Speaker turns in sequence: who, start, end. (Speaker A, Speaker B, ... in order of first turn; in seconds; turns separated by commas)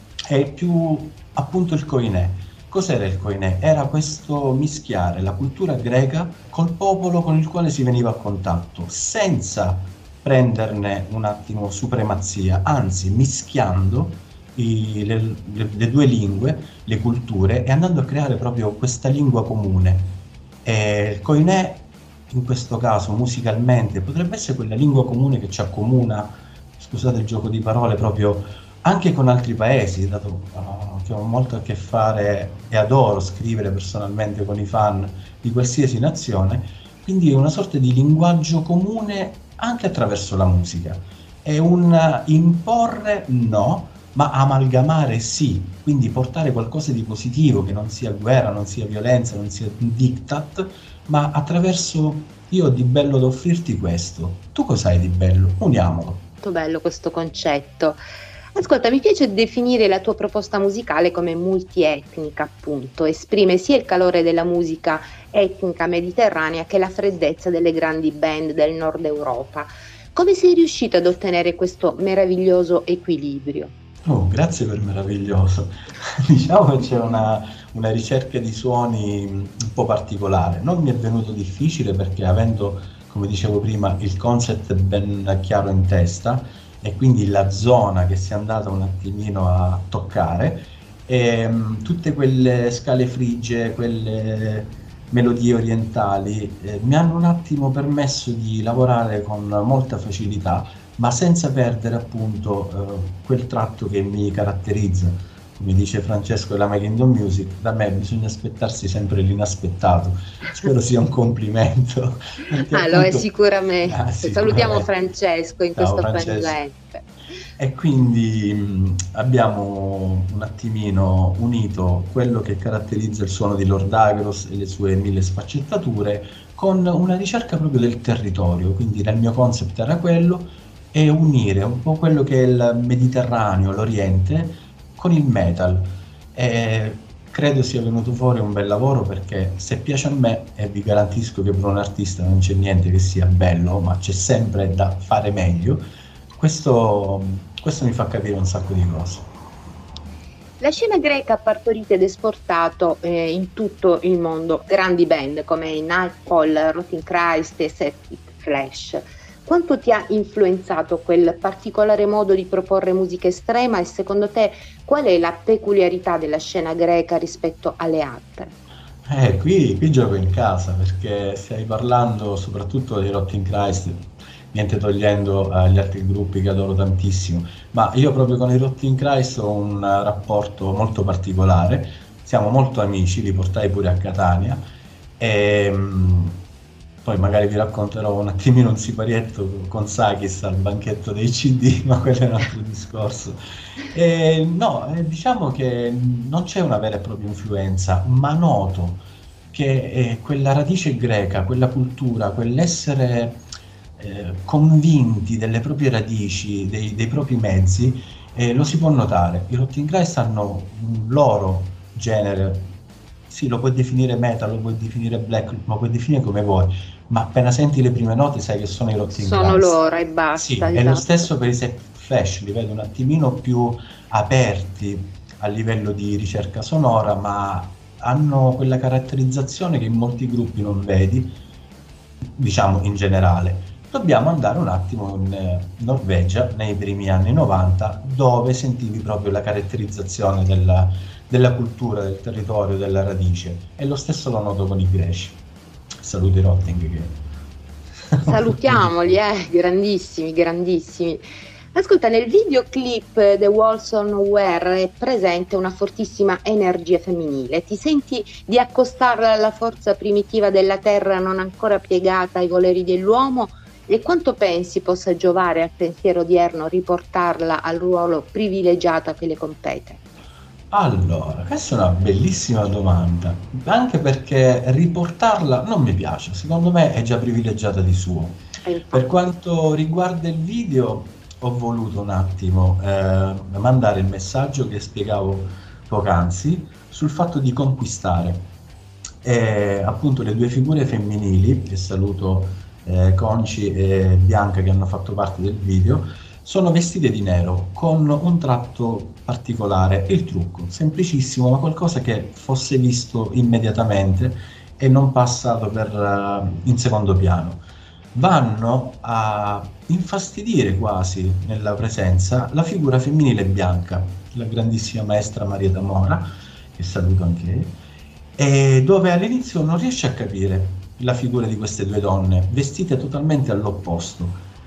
Speaker A: 0.3-56.2, Speaker B: 56.4-58.0, Speaker B: 58.5-73.7, Speaker A: 74.0-114.9, Speaker B: 112.7-117.0, Speaker A: 115.8-116.6, Speaker A: 117.6-145.9, Speaker A: 146.4-149.3, Speaker B: 150.6-168.5, Speaker A: 169.1-184.7, Speaker A: 185.2-186.4, Speaker A: 187.0-193.4, Speaker A: 193.9-203.4, Speaker A: 204.0-212.7, Speaker A: 213.3-219.8, Speaker B: 219.1-221.3, Speaker A: 220.3-231.4, Speaker A: 232.4-245.4, Speaker A: 246.0-247.2, Speaker A: 248.1-249.2, Speaker B: 248.2-270.0, Speaker A: 270.7-288.5, Speaker B: 278.6-279.1, Speaker A: 289.2-317.8, Speaker A: 318.4-324.4